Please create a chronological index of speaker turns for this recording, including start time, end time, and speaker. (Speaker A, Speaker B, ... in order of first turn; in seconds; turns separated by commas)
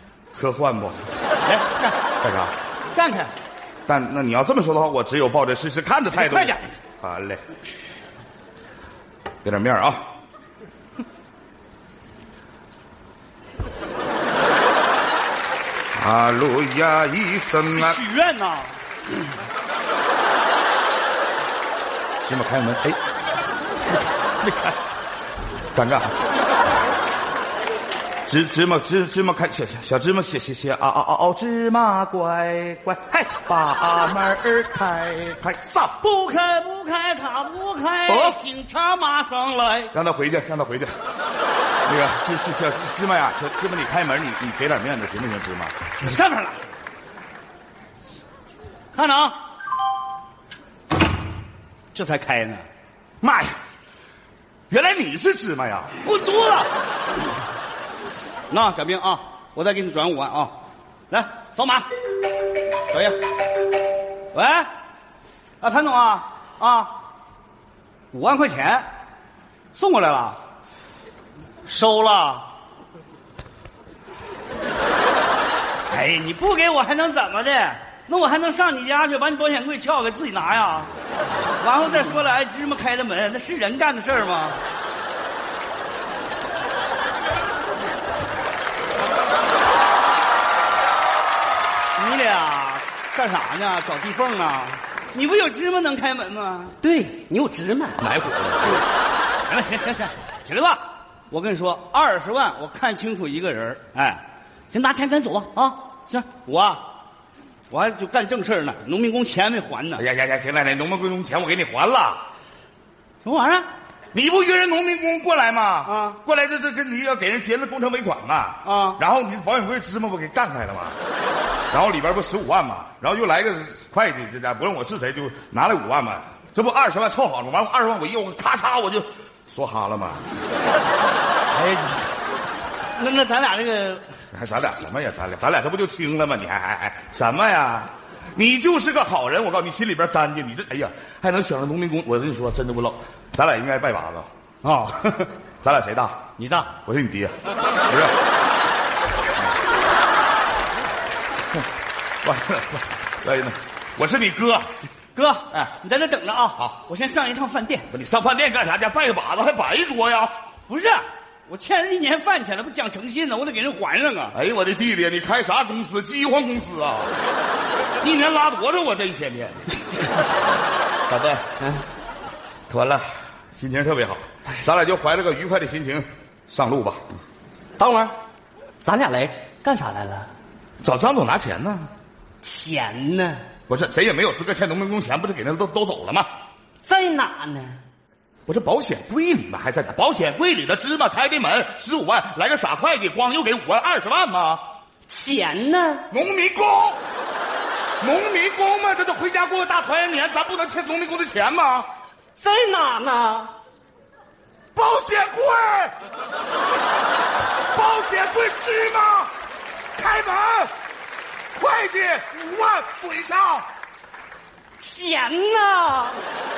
Speaker A: 0.3-1.1, Speaker B: 1.4-1.9, Speaker A: 2.2-2.6, Speaker B: 2.9-3.3, Speaker A: 3.9-7.4, Speaker B: 6.1-6.8, Speaker A: 9.4-10.1, Speaker A: 15.9-18.0, Speaker B: 17.8-18.8, Speaker A: 22.2-23.0, Speaker A: 24.4-24.8, Speaker A: 25.8-26.2, Speaker A: 28.3-36.0, Speaker B: 36.0-39.9, Speaker A: 38.1-38.4, Speaker A: 39.9-40.9, Speaker A: 41.9-45.8, Speaker B: 46.0-46.7, Speaker B: 48.9-49.4, Speaker B: 51.9-52.6, Speaker A: 53.2-53.5, Speaker A: 54.7-56.0, Speaker B: 56.0-56.7, Speaker B: 58.5-60.5, Speaker B: 61.1-61.9, Speaker B: 62.9-63.3, Speaker B: 64.3-64.7, Speaker B: 65.6-67.0, Speaker B: 68.1-68.9, Speaker B: 69.7-70.4, Speaker B: 71.7-72.5, Speaker B: 75.9-80.9, Speaker B: 81.6-84.6, Speaker B: 92.0-96.8, Speaker C: 96.8-98.0, Speaker A: 98.0-98.8, Speaker B: 99.5-106.8, Speaker B: 107.7-110.0, Speaker A: 110.0-112.2, Speaker B: 113.2-113.7, Speaker A: 114.1-121.0, Speaker B: 115.9-116.2, Speaker B: 118.7-119.0, Speaker A: 121.7-130.3, Speaker B: 131.5-132.2, Speaker B: 133.0-134.1, Speaker A: 134.3-144.3, Speaker B: 144.6-145.3, Speaker A: 145.6-146.2, Speaker B: 146.4-146.7, Speaker A: 146.8-148.2, Speaker A: 152.2-154.8, Speaker B: 155.2-157.9, Speaker A: 157.9-160.3, Speaker B: 160.7-164.3, Speaker A: 164.3-167.2, Speaker A: 168.0-169.8, Speaker A: 171.1-171.4, Speaker A: 172.7-177.0, Speaker C: 177.8-178.2, Speaker C: 178.8-180.3, Speaker A: 180.8-181.9, Speaker C: 182.4-183.4, Speaker A: 183.7-186.3, Speaker C: 186.8-187.8, Speaker A: 188.5-194.6, Speaker C: 195.1-196.1, Speaker A: 196.1-197.0, Speaker A: 198.0-201.9, Speaker C: 202.4-203.5, Speaker A: 204.8-205.9, Speaker A: 207.7-209.3, Speaker A: 210.0-210.7, Speaker A: 211.5-213.7, Speaker C: 214.8-216.2